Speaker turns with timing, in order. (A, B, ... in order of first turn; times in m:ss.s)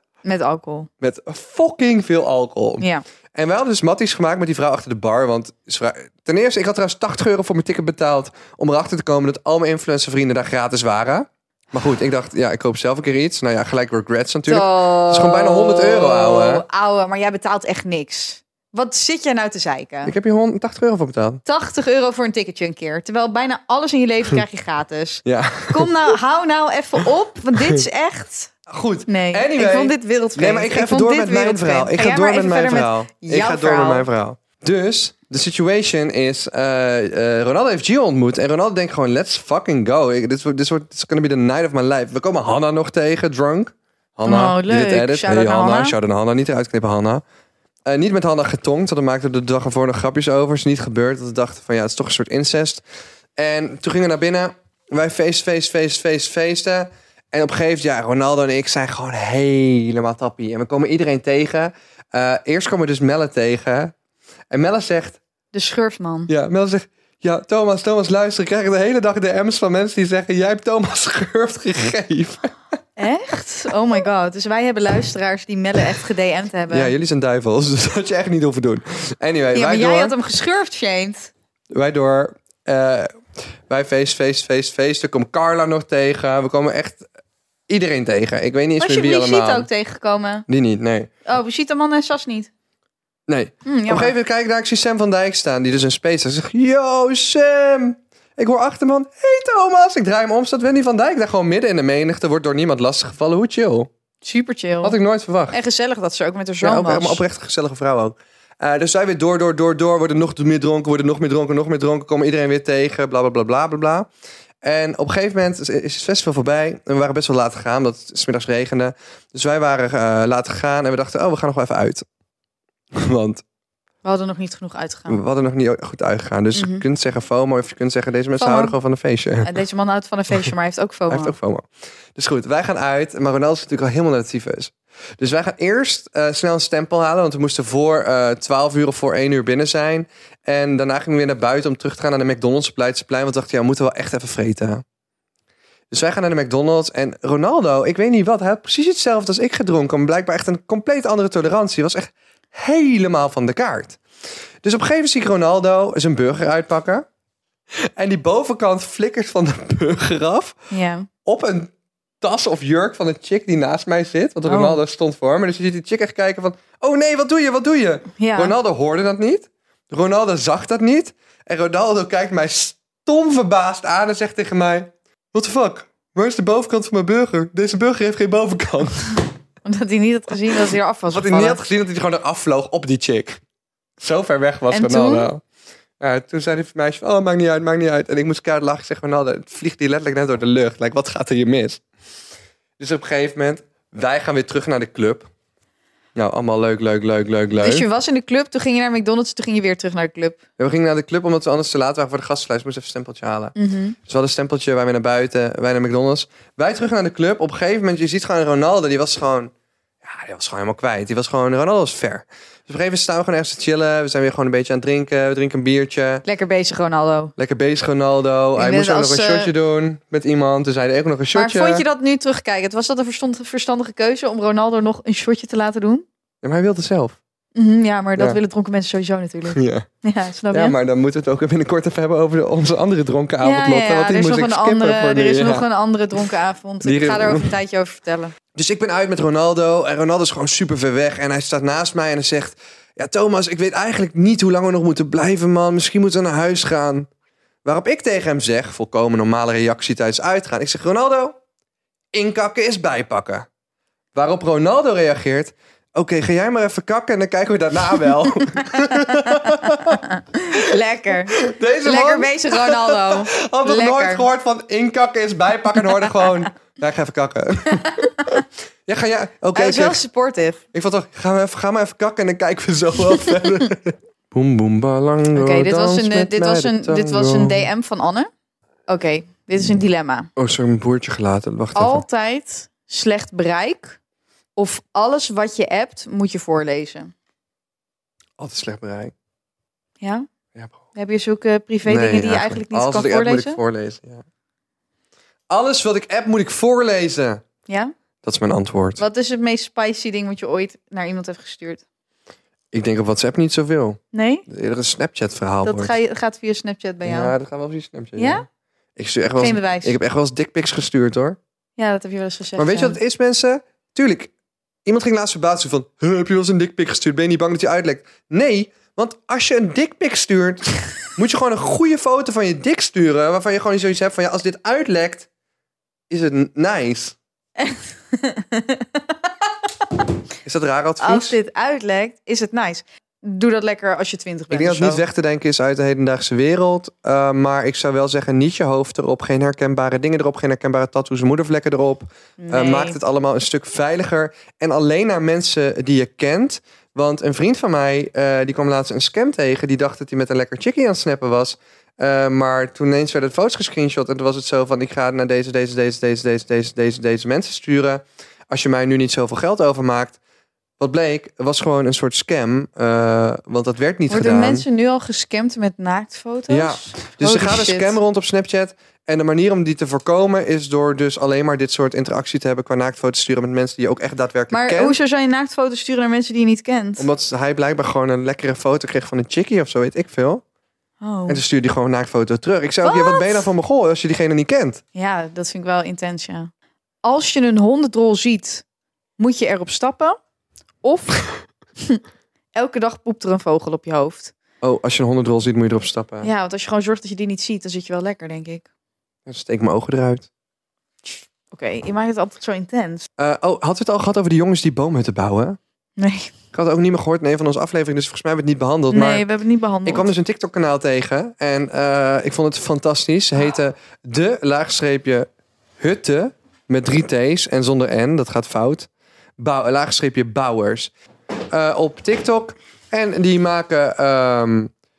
0:00.2-0:00.9 A
0:01.0-0:16.6 B
0:14.5-0:20.1 A
0:20.0-0:21.4 B
0:21.4-0:28.5 A
0:25.2-0:26.1 B
0:28.7-0:47.2 B
0:29.1-0:34.1 A
0:44.2-0:46.0 A
0:47.9-0:52.8 B
0:53.4-1:03.9 B
1:04.5-1:05.2 B
1:05.5-1:06.3 A
1:06.3-1:12.5 B
1:13.0-1:16.9 A
1:16.7-1:20.2 B
1:19.5-1:21.3 A
1:21.7-1:23.2 B
1:23.7-1:27.0 B
1:27.7-1:29.7 B
1:28.8-1:30.5 A
1:30.5-1:31.1 B
1:31.3-1:32.5 A
1:33.3-1:43.9 B
1:33.6-1:34.2 A
1:44.2-1:45.0 A
1:44.8-1:45.6 B
1:45.5-1:47.2 A
1:46.6-1:54.1 B
1:54.6-2:02.0 B
2:02.9-2:03.4 B
2:04.0-2:05.2 A
2:05.1-2:09.5 B
2:06.5-2:06.8 A
2:08.4-2:08.8 A
2:09.4-2:11.4 A
2:11.1-2:24.8 B
2:25.9-2:34.0 B
2:34.6-2:37.1 B
2:37.8-2:40.6 B
2:40.7-2:41.1 A
2:41.2-2:59.2 B
2:44.4-2:44.8 A
2:48.2-2:48.5 A
2:59.6-3:01.6 A
3:01.1-3:03.4 B
3:04.0-3:05.4 B
3:04.7-3:05.3 A
3:06.0-3:11.8 B
3:12.8-3:15.3 B
3:16.2-3:17.9 B
3:17.6-3:20.4 A
3:20.6-3:23.6 B
3:23.6-3:24.0 A
3:24.1-3:29.5 B
3:30.0-3:36.2 B
3:36.2-3:37.3 A
3:37.4-3:41.8 B
3:38.6-3:39.5 A
3:41.3-3:46.0 A
3:46.4-3:47.2 B
3:47.6-3:50.8 A
3:49.5-3:49.9 B
3:50.5-3:55.7 B
3:53.4-3:58.3 A
3:56.8-3:57.5 B
3:58.6-4:07.1 B
4:07.6-4:11.4 B
4:12.1-4:13.5 B
4:14.1-4:20.0 B
4:18.6-4:24.3 A
4:21.1-4:30.0 B
4:29.6-4:30.6 A
4:30.7-4:37.7 B
4:35.4-4:38.3 A
4:38.9-4:40.3 A
4:40.4-4:42.0 B
4:41.8-4:44.0 A
4:44.6-4:47.1 A
4:48.4-4:49.1 B
4:50.0-4:50.3 A
4:51.0-4:53.6 A
4:51.9-4:54.2 B
4:55.5-4:57.4 B
4:57.7-4:57.9 A
4:58.2-4:59.0 B
4:59.0-5:01.8 A
5:02.7-5:05.9 B
5:04.1-5:04.5 A
5:05.6-5:07.4 A
5:07.0-5:11.4 B
5:08.2-5:08.5 A
5:09.4-5:10.0 A
5:11.8-5:13.0 A
5:12.6-5:14.3 B
5:14.9-5:25.3 B
5:26.1-5:27.2 B
5:27.6-5:29.3 A
5:30.4-5:31.4 B
5:31.0-5:35.0 A
5:34.5-6:00.2 B
5:42.4-5:43.0 A
6:00.8-6:04.7 B
6:04.1-6:08.0 A
6:06.5-6:15.0 B
6:14.5-6:17.1 A
6:17.0-6:20.4 B
6:21.0-6:21.4 A
6:21.3-6:24.8 B
6:22.8-6:23.5 A
6:25.0-6:26.5 A
6:27.0-6:28.6 A
6:29.2-6:30.2 A
6:30.8-6:31.3 A
6:32.6-6:34.3 A
6:34.6-6:36.3 B
6:36.2-6:38.7 A
6:39.3-6:40.3 B
6:41.0-6:43.1 A
6:43.2-6:45.6 B
6:46.0-6:46.3 A
6:46.5-6:49.3 B
6:48.9-6:50.1 A
6:49.8-6:55.3 B
6:55.8-7:00.9 B
7:01.5-7:04.7 B